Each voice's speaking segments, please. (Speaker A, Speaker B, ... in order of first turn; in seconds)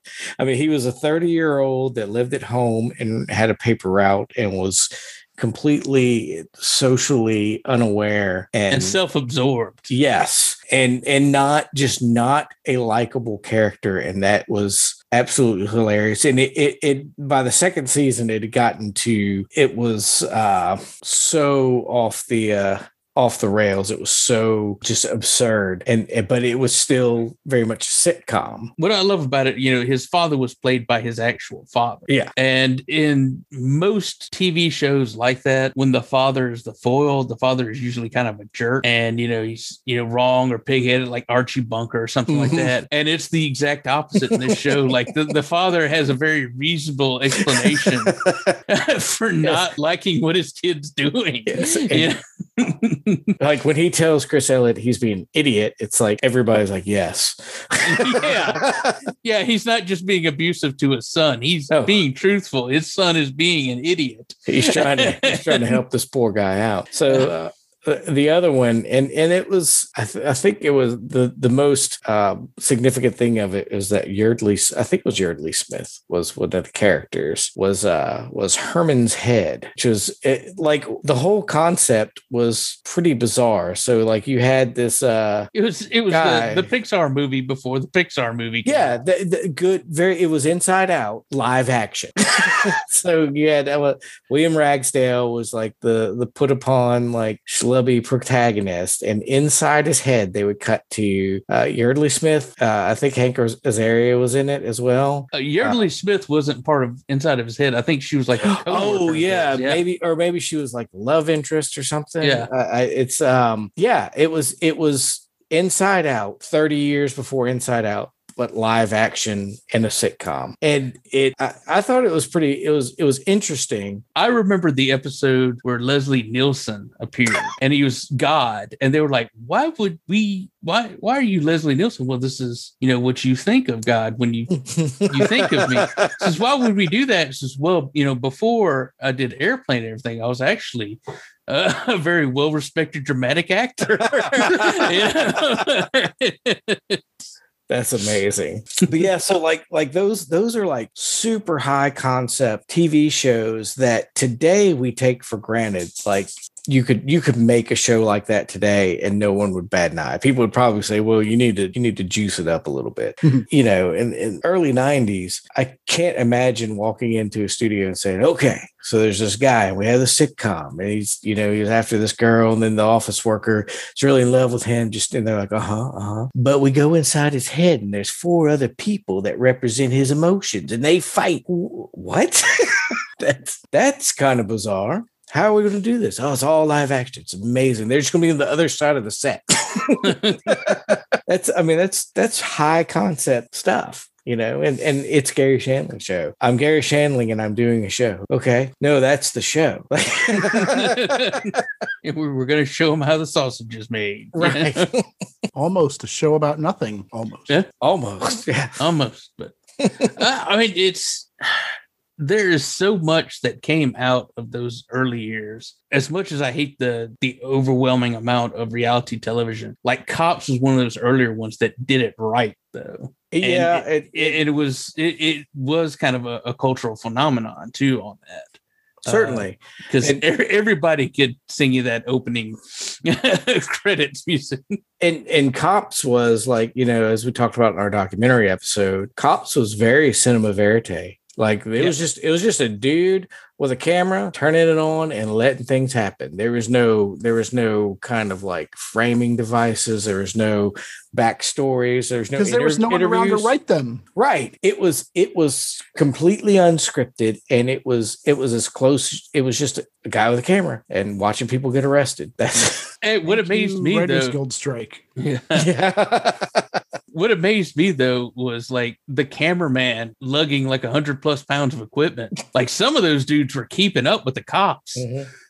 Speaker A: 0.4-9.0, 9.9-28.7, 42.3-42.7, 44.2-44.6, 47.4-48.6, 51.5-52.1, 53.4-59.0, 61.7-62.0, 64.5-85.5, 86.1-86.7, 88.6-105.8, 108.5-124.0, 134.7-136.3, 144.2-145.4, 147.7-201.4, 204.3-205.1, 207.8-208.8, 223.3-224.4, 229.1-230.2, 235.0-253.5, 254.2-262.9, 265.5-266.8, 274.9-275.3
Speaker B: 8.7-9.9, 28.8-53.3, 57.8-58.6, 59.2-65.8, 85.5-88.9, 105.3-109.8, 112.2-112.5, 124.2-147.0, 190.0-190.6, 200.3-204.9, 208.8-209.5, 210.1-234.8, 263.0-264.4, 265.2-265.7, 267.1-275.1
Speaker C: 205.5-207.5, 252.4-254.0, 263.2-265.0